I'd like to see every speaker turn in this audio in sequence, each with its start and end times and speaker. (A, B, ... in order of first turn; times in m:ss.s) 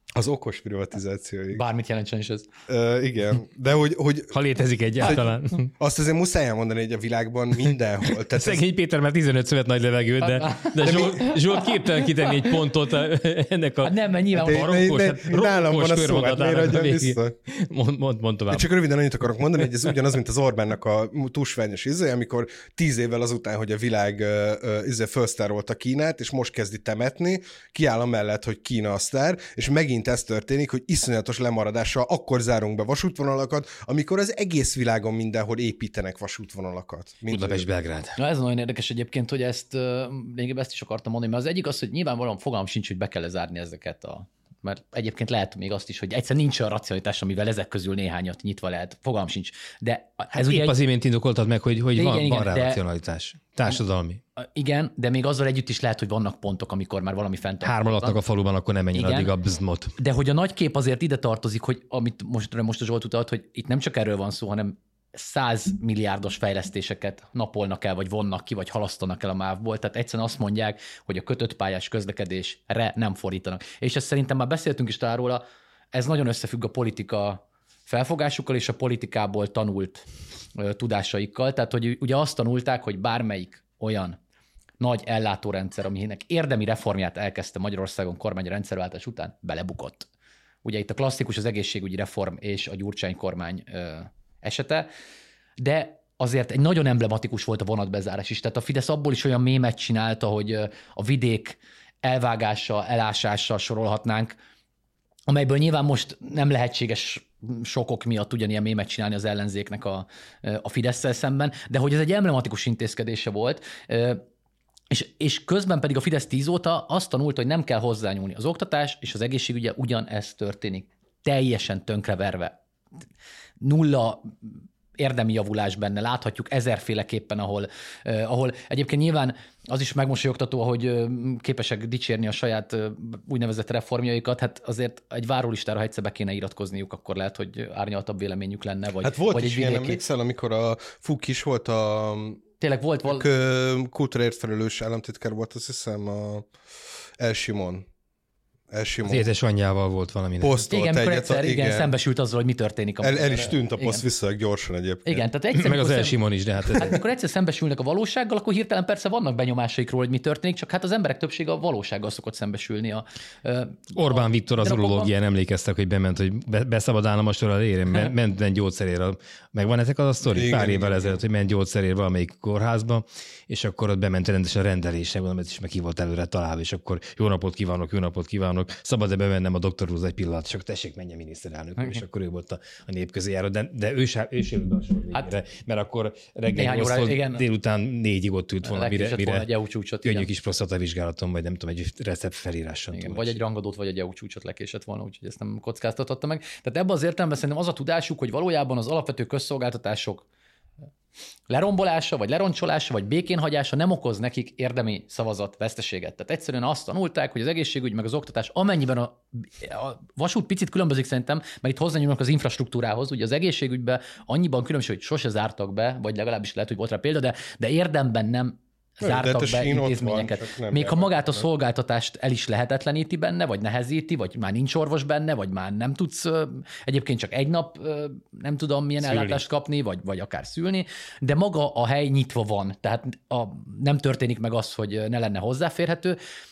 0:00.2-0:01.6 A
0:01.5-0:02.5 B
0:02.7-0:04.4 A
0:04.3-0:05.7 C
0:05.8-0:08.6 A
0:08.2-0:18.7 C
0:10.2-0:12.6 B
0:10.8-0:11.2 A
0:13.8-0:14.8 B
0:14.3-0:17.3 A
0:18.5-0:37.7 A
0:37.3-0:38.2 C
0:38.2-0:50.8 B
0:50.4-0:54.2 C
0:52.0-0:52.8 B
0:54.4-0:58.2 B
0:57.6-1:00.0 C
0:58.9-0:59.3 B
1:00.0-1:24.2 B
1:24.8-1:30.1 B
1:30.6-1:34.9 B
1:35.6-1:44.4 B
1:45.3-1:54.2 B
1:54.9-2:02.6 B
2:03.6-2:20.0 B
2:19.0-2:22.4 A
2:22.6-2:23.3 B
2:23.1-2:26.5 A
2:27.2-2:27.9 A
2:28.7-2:29.3 A
2:29.0-2:30.6 C
2:30.4-2:31.9 A
2:30.7-2:34.0 B
2:33.0-2:35.2 A
2:35.1-2:45.1 B
2:35.5-2:37.0 C
2:43.9-3:09.5 C
2:50.3-2:51.2 A
3:01.8-3:02.0 B
3:06.6-3:07.4 B
3:08.6-3:10.3 B
3:10.0-3:13.4 C
3:12.9-3:20.3 B
3:21.5-3:56.2 B
3:39.0-3:41.5 A
3:49.0-3:49.4 C